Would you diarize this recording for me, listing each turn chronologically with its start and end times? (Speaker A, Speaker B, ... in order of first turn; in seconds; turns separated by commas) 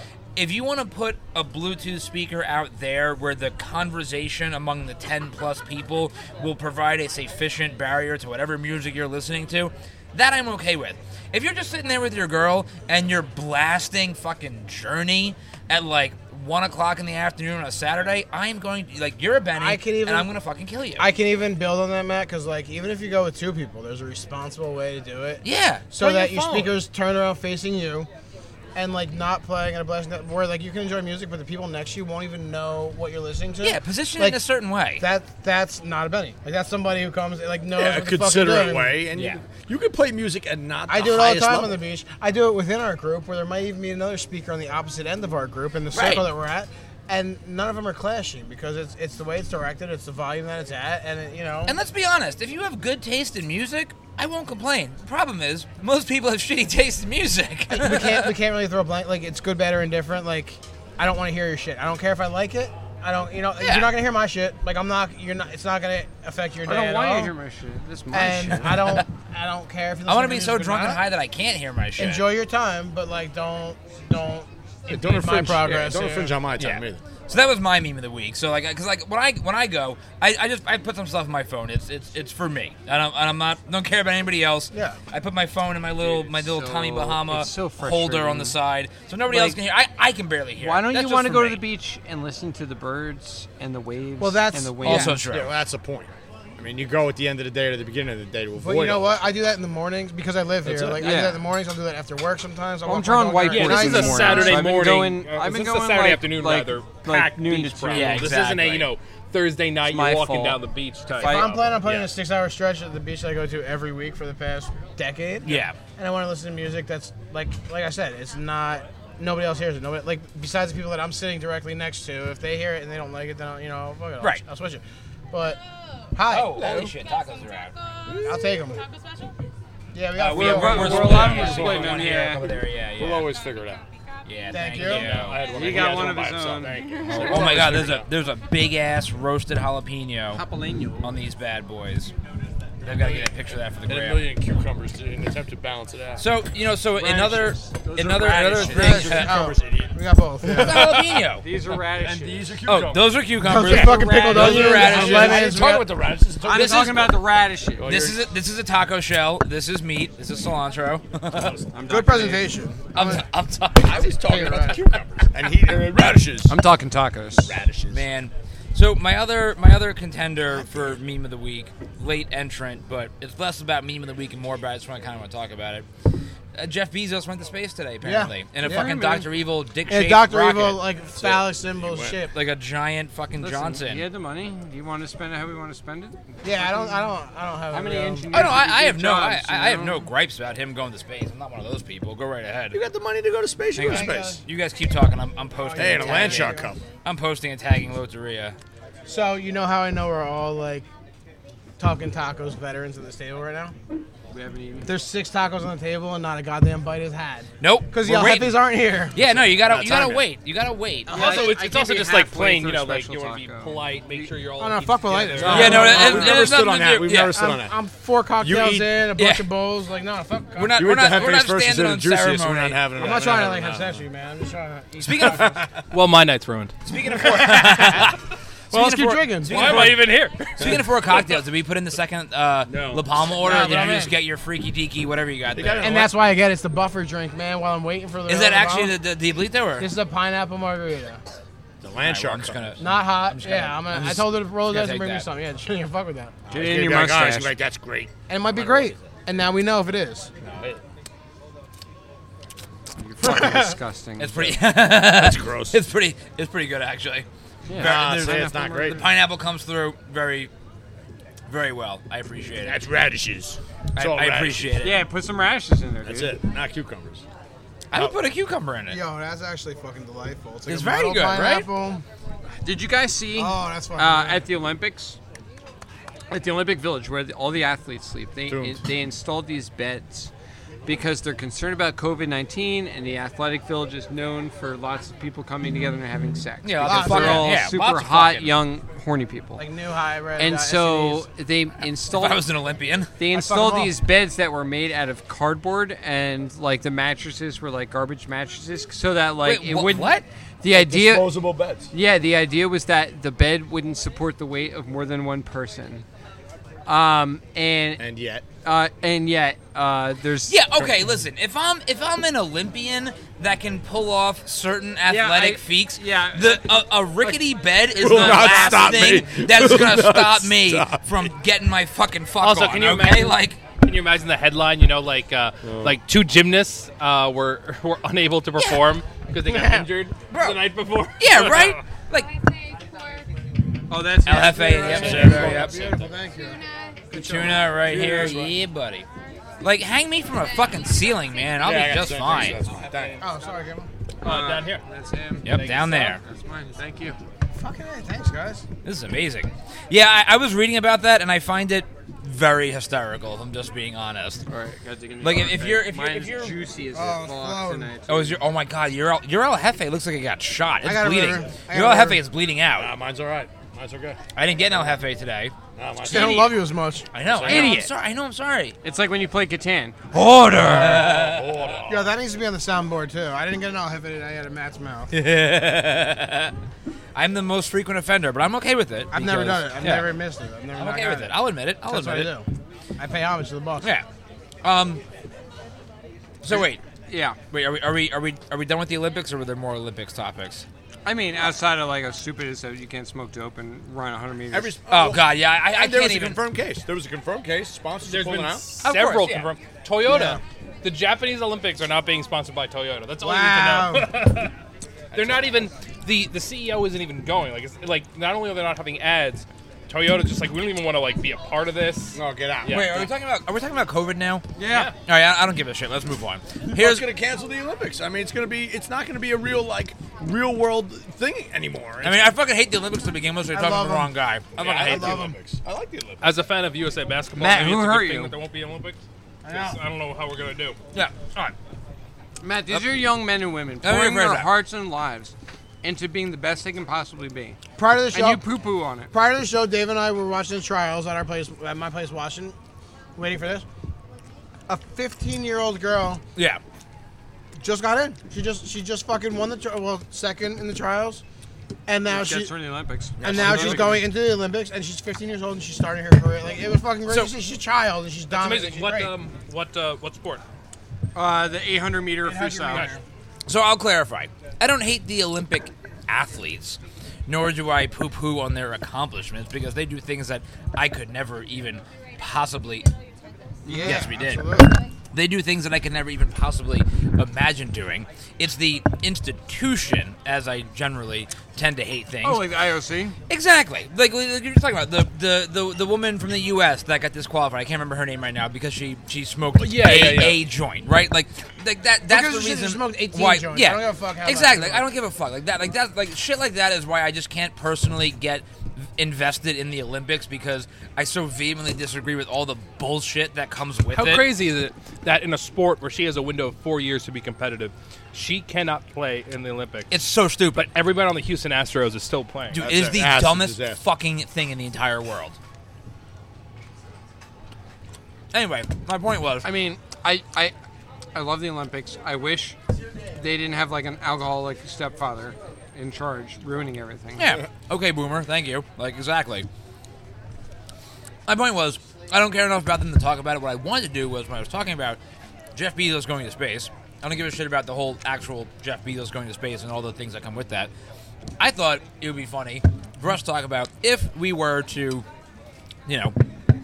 Speaker A: 0.3-21.1, Speaker B: 19.6-20.3, Speaker B: 21.0-28.1, Speaker A: 25.4-26.7, Speaker B: 28.7-34.4, Speaker A: 33.6-35.0, Speaker B: 35.0-39.0, Speaker C: 37.7-41.8, Speaker A: 39.1-39.4, Speaker B: 40.9-51.8, Speaker A: 45.9-46.3, Speaker A: 51.6-58.3, Speaker B: 57.7-67.3, Speaker A: 63.6-63.9, Speaker D: 66.6-69.0, Speaker B: 68.1-71.0, Speaker A: 70.1-72.2, Speaker B: 72.0-76.4, Speaker C: 74.9-77.0, Speaker A: 76.6-91.6, Speaker B: 84.7-85.0, Speaker D: 86.0-88.6, Speaker D: 89.3-89.6, Speaker D: 90.6-95.2, Speaker B: 94.2-95.1, Speaker A: 94.8-95.5, Speaker C: 95.0-99.1, Speaker B: 98.6-104.7, Speaker C: 100.6-101.0, Speaker D: 101.0-101.4, Speaker D: 102.8-108.3, Speaker E: 103.5-111.5, Speaker A: 107.9-108.9, Speaker D: 109.8-111.5, Speaker B: 111.2-125.6, Speaker C: 111.7-112.1, Speaker A: 115.4-115.8, Speaker B: 126.1-126.8, Speaker A: 126.3-127.7, Speaker C: 126.6-126.9, Speaker B: 128.1-128.8, Speaker B: 129.9-131.4, Speaker A: 130.2-133.3, Speaker C: 130.3-133.8, Speaker D: 130.3-132.5, Speaker A: 134.2-135.5, Speaker B: 134.5-135.3, Speaker C: 134.8-138.1, Speaker D: 135.4-137.3, Speaker A: 137.0-140.4, Speaker D: 140.3-141.2, Speaker A: 141.0-142.1, Speaker A: 142.8-144.3, Speaker C: 143.9-146.2, Speaker A: 146.2-149.3, Speaker D: 147.0-149.2, Speaker C: 148.0-149.9, Speaker B: 148.6-150.9, Speaker C: 150.4-153.1, Speaker A: 150.5-151.4, Speaker D: 151.4-152.4, Speaker A: 152.7-157.1, Speaker B: 153.4-155.8, Speaker D: 153.6-155.1, Speaker C: 154.1-157.1, Speaker D: 156.4-157.9, Speaker C: 157.8-158.2, Speaker A: 157.8-161.6, Speaker C: 161.3-161.7, Speaker D: 161.7-162.5, Speaker B: 161.9-163.2, Speaker A: 162.9-164.8, Speaker C: 163.8-166.6, Speaker B: 164.1-164.8, Speaker D: 166.5-167.5, Speaker C: 167.4-168.0, Speaker A: 167.9-175.9, Speaker A: 176.5-180.8, Speaker B: 178.0-179.0, Speaker D: 178.6-179.2, Speaker B: 179.9-182.4, Speaker C: 181.2-182.2, Speaker A: 182.2-184.1, Speaker D: 183.4-187.1, Speaker B: 186.4-188.3, Speaker D: 187.7-190.1, Speaker A: 188.3-192.8, Speaker C: 192.7-194.4, Speaker A: 193.7-198.6, Speaker B: 193.8-194.4, Speaker B: 195.5-196.7, Speaker C: 195.8-196.8, Speaker B: 199.1-200.9, Speaker B: 201.8-203.7, Speaker D: 204.3-204.9, Speaker B: 204.8-209.2, Speaker A: 207.6-208.5, Speaker A: 209.1-211.4, Speaker C: 209.2-210.2, Speaker D: 211.1-214.3, Speaker E: 211.1-216.2, Speaker B: 214.6-220.8, Speaker C: 215.3-217.8, Speaker A: 215.4-217.4, Speaker C: 218.4-218.9, Speaker A: 219.2-219.5, Speaker A: 220.6-222.8, Speaker C: 220.8-224.0, Speaker B: 222.9-225.6, Speaker A: 225.0-225.5, Speaker C: 225.3-225.7, Speaker E: 225.9-226.7, Speaker A: 226.8-228.2, Speaker B: 227.2-228.1, Speaker B: 228.7-229.9, Speaker A: 228.7-236.1, Speaker E: 229.5-230.7, Speaker C: 232.7-233.7, Speaker B: 233.4-234.1, Speaker C: 235.5-236.0, Speaker B: 235.8-238.9, Speaker A: 238.3-239.9, Speaker B: 239.8-241.2, Speaker C: 241.8-242.6, Speaker A: 242.0-245.2, Speaker B: 242.8-246.3, Speaker C: 246.4-249.0, Speaker D: 246.5-247.5, Speaker B: 248.3-250.3, Speaker C: 250.4-250.8, Speaker D: 253.0-254.4, Speaker B: 253.2-253.7, Speaker A: 254.2-258.3, Speaker C: 254.4-255.8, Speaker D: 257.7-259.1, Speaker C: 257.8-259.0, Speaker A: 258.9-260.5, Speaker A: 261.5-262.9, Speaker C: 262.6-264.9, Speaker A: 263.9-265.0, Speaker D: 264.8-266.4, Speaker C: 266.0-267.2, Speaker A: 267.9-269.0, Speaker B: 268.9-272.0, Speaker A: 270.7-271.7, Speaker D: 272.6-275.2, Speaker B: 273.4-274.4, Speaker D: 276.3-280.3, Speaker C: 278.5-278.8, Speaker D: 280.9-289.6, Speaker A: 286.6-288.6, Speaker B: 286.9-287.5, Speaker B: 289.6-291.3, Speaker D: 290.4-292.4, Speaker A: 292.1-293.1, Speaker D: 293.2-301.4, Speaker B: 293.3-294.0, Speaker A: 299.4-300.2, Speaker C: 300.7-301.9, Speaker D: 301.9-306.1, Speaker D: 306.9-308.0, Speaker C: 308.0-308.4, Speaker D: 308.6-311.0, Speaker A: 310.5-323.6, Speaker D: 315.1-319.3, Speaker C: 318.0-321.3, Speaker E: 322.4-331.8, Speaker C: 325.6-326.0, Speaker A: 328.6-328.8, Speaker B: 329.5-329.9, Speaker A: 330.3-332.3, Speaker D: 333.9-335.5, Speaker A: 334.2-336.0, Speaker B: 334.5-337.7, Speaker C: 334.8-336.0, Speaker A: 337.1-339.1, Speaker D: 337.9-338.5, Speaker A: 339.6-342.6, Speaker C: 341.6-343.2, Speaker B: 343.2-343.9, Speaker D: 344.2-347.2, Speaker E: 344.2-344.8, Speaker A: 345.4-346.2, Speaker E: 345.5-346.0, Speaker B: 347.5-348.6, Speaker A: 348.8-354.4, Speaker D: 354.5-358.4, Speaker A: 355.2-356.6, Speaker B: 356.9-357.9, Speaker A: 358.1-362.9, Speaker B: 360.8-362.2, Speaker C: 362.7-364.2, Speaker A: 364.3-365.5, Speaker C: 365.8-366.6, Speaker B: 366.0-367.8, Speaker A: 366.0-366.5, Speaker A: 367.1-368.8, Speaker C: 367.2-367.8, Speaker D: 367.5-367.8, Speaker D: 368.8-370.0, Speaker A: 370.1-371.6, Speaker C: 370.6-372.1, Speaker B: 371.9-375.1, Speaker A: 375.1-376.5, Speaker A: 377.1-380.1, Speaker B: 379.1-382.4, Speaker A: 380.8-382.3, Speaker B: 383.0-383.9, Speaker A: 384.6-385.0, Speaker A: 386.4-386.8, Speaker D: 386.5-387.4, Speaker A: 387.5-390.6, Speaker D: 391.0-394.8, Speaker C: 394.5-398.7, Speaker A: 394.9-396.4, Speaker E: 398.0-404.5, Speaker A: 398.8-399.5, Speaker B: 400.0-400.4, Speaker B: 403.2-404.1, Speaker E: 405.1-413.0, Speaker C: 412.1-413.1, Speaker A: 412.7-414.5, Speaker D: 414.6-414.9, Speaker E: 414.7-414.9, Speaker A: 415.0-417.1, Speaker C: 416.7-422.2, Speaker A: 422.0-425.3, Speaker B: 423.5-424.1, Speaker C: 424.6-426.4, Speaker B: 424.8-425.4, Speaker E: 426.2-430.8, Speaker D: 427.4-428.4, Speaker B: 429.4-429.8, Speaker A: 430.9-431.5, Speaker D: 432.4-437.6, Speaker A: 433.8-434.5, Speaker B: 437.8-438.4, Speaker D: 438.1-439.1, Speaker B: 439.1-442.5, Speaker B: 443.1-443.6, Speaker B: 444.7-446.2, Speaker A: 446.4-446.6, Speaker B: 447.6-451.2, Speaker B: 451.9-452.5, Speaker D: 452.1-454.0, Speaker C: 453.2-454.0, Speaker B: 453.2-459.1, Speaker E: 458.3-460.4, Speaker D: 461.1-462.9, Speaker B: 462.2-463.0, Speaker A: 463.5-472.9, Speaker D: 473.6-474.0, Speaker B: 473.6-474.7, Speaker A: 473.8-482.5, Speaker D: 482.2-483.2, Speaker A: 483.3-498.4, Speaker E: 489.6-490.4, Speaker C: 489.6-490.4, Speaker B: 492.1-494.9, Speaker A: 499.0-504.2, Speaker E: 503.9-509.9, Speaker A: 509.9-510.7, Speaker E: 510.5-512.6, Speaker A: 512.5-515.4, Speaker C: 512.5-513.8, Speaker A: 518.3-519.5, Speaker D: 519.4-520.5, Speaker D: 521.1-522.5, Speaker D: 523.1-527.4, Speaker A: 527.2-529.5, Speaker A: 531.3-535.0, Speaker A: 535.5-540.7, Speaker A: 541.4-545.0, Speaker A: 545.9-546.1